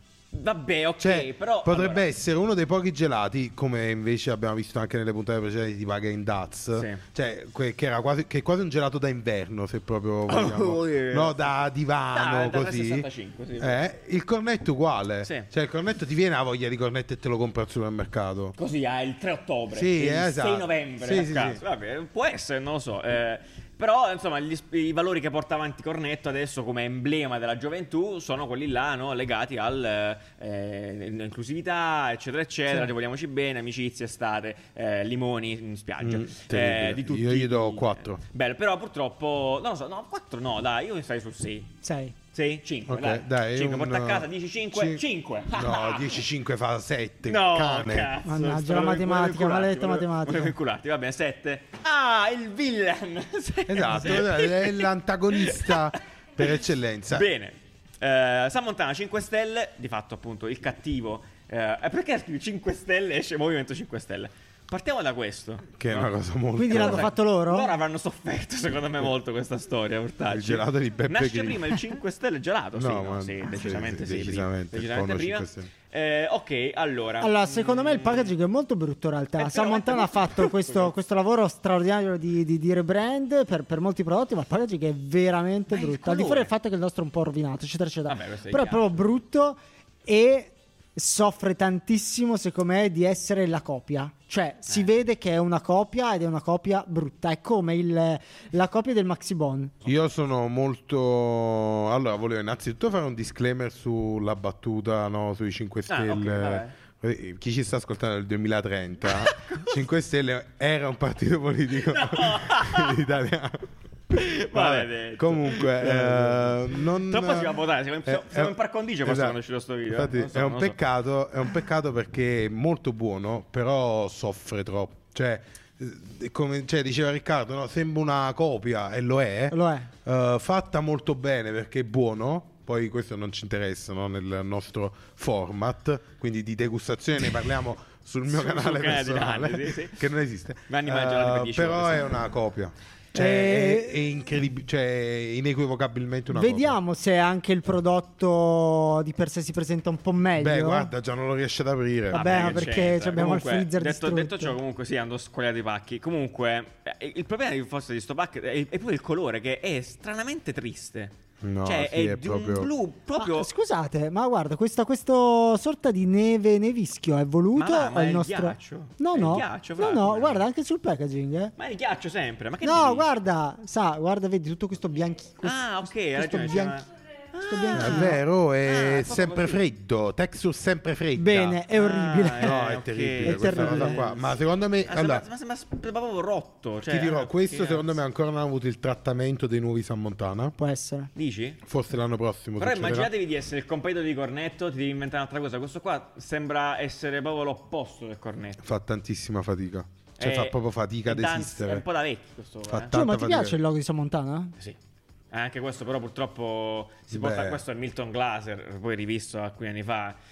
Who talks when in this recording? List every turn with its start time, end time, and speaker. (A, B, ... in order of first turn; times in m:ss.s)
0:00.3-0:02.0 A
0:01.0-0:18.5 B
0:06.7-0:07.0 A
0:10.3-0:11.6 A
0:12.1-0:13.8 A
0:18.6-0:41.8 A
0:19.7-0:21.6 B
0:36.0-0:38.2 B
0:41.8-0:42.1 C
0:42.3-0:46.3 A
0:42.9-0:48.1 B
0:47.2-0:56.5 A
0:48.2-0:50.5 C
0:53.7-0:57.3 B
0:57.1-1:18.3 A
1:05.8-1:07.1 B
1:06.6-1:07.7 C
1:10.3-1:11.8 B
1:12.7-1:15.7 B
1:17.2-1:39.7 C
1:19.4-1:20.9 A
1:25.7-1:26.5 A
1:28.1-1:28.9 A
1:39.8-1:57.5 B
1:45.9-1:46.7 A
1:49.1-1:49.8 A
1:51.8-1:53.1 A
1:54.1-2:00.8 A
1:58.0-1:59.4 B
1:59.9-2:26.8 B
2:09.5-2:09.9 C
2:18.3-2:20.1 A
2:20.7-2:22.1 A
2:23.1-2:23.9 C
2:26.3-2:30.9 C
2:30.4-2:32.7 B
2:32.1-2:34.6 C
2:32.1-2:41.1 A
2:41.4-2:42.7 B
2:41.6-2:43.5 A
2:43.2-2:51.5 C
2:47.6-2:50.4 A
2:51.6-2:53.1 A
2:52.6-2:56.8 C
2:55.4-2:59.6 A
2:57.4-2:58.2 C
2:57.7-3:01.6 B
3:01.2-3:04.0 C
3:01.7-3:07.9 A
3:02.4-3:05.2 B
3:06.8-3:10.6 B
3:10.6-3:11.1 C
3:11.1-3:11.6 A
3:11.6-3:13.1 B
3:12.6-3:18.6 A
3:18.6-3:21.8 B
3:20.2-3:22.9 A
3:22.7-3:23.6 B
3:22.9-3:24.5 C
3:25.3-3:30.2 A
3:27.1-3:27.6 B